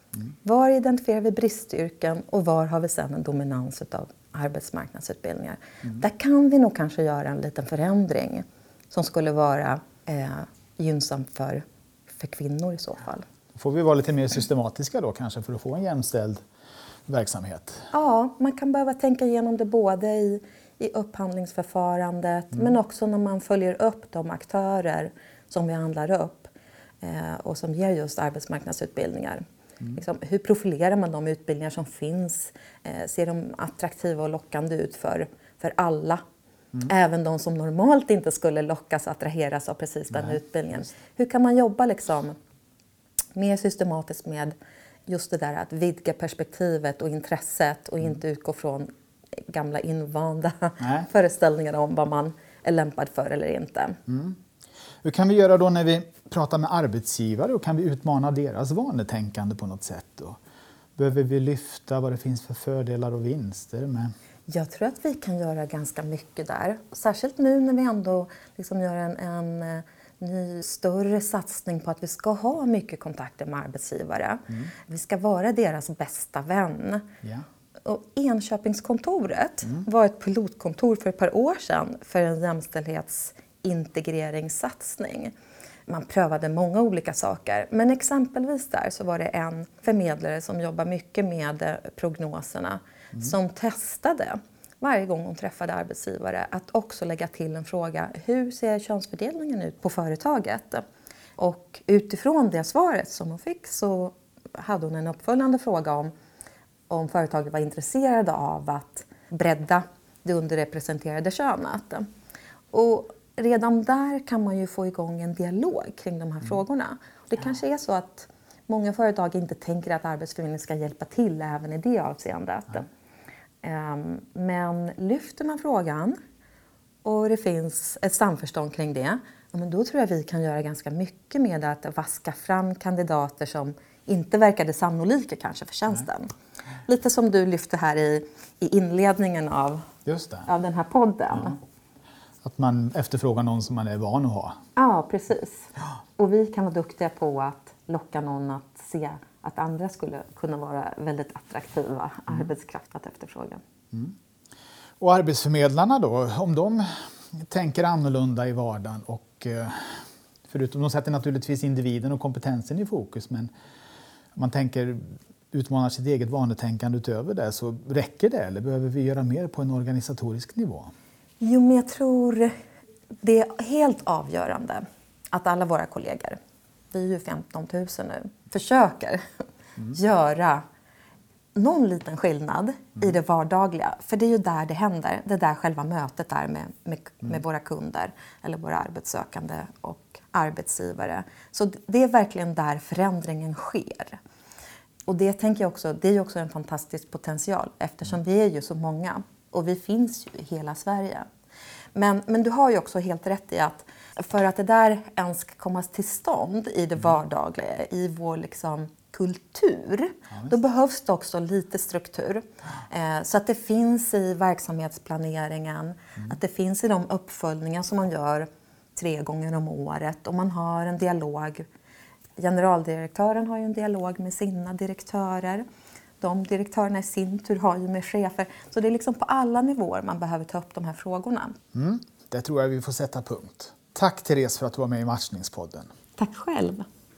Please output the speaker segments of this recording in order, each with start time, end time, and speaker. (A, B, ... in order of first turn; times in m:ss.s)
0:00.4-0:13.2 A
0:13.5-0:16.4 B
0:17.1-0:17.8 B
0:17.9-0:26.5 A
0:27.0-0:36.2 A
0:36.8-0:42.4 A
0:43.3-0:44.5 A
0:45.1-0:48.9 A
0:49.5-0:54.0 A
0:50.8-0:51.1 B
0:54.1-0:54.4 B
0:55.0-1:00.4 B
1:01.0-1:04.1 B
1:04.5-1:17.0 A
1:17.8-1:25.3 A
1:25.9-1:40.8 A
1:41.4-1:46.1 A
1:46.9-1:52.0 A
1:52.7-2:02.9 A
2:03.6-2:06.2 A
2:07.0-2:16.3 A
2:16.8-2:19.9 A
2:20.0-2:20.5 B
2:20.4-2:21.6 A
2:22.4-2:24.6 B
2:24.8-2:33.6 A
2:35.0-2:43.5 B
2:44.3-2:45.0 B
2:45.5-2:50.9 B
2:51.4-2:52.5 A
2:53.2-2:56.4 A
2:56.9-2:59.2 A
2:59.8-3:00.6 A
3:01.5-3:14.2 A
3:15.0-3:21.2 A
3:21.9-3:41.7 A
3:42.4-3:45.6 A
3:46.2-3:51.6 A
3:51.7-3:55.9 B
3:56.2-3:56.8 A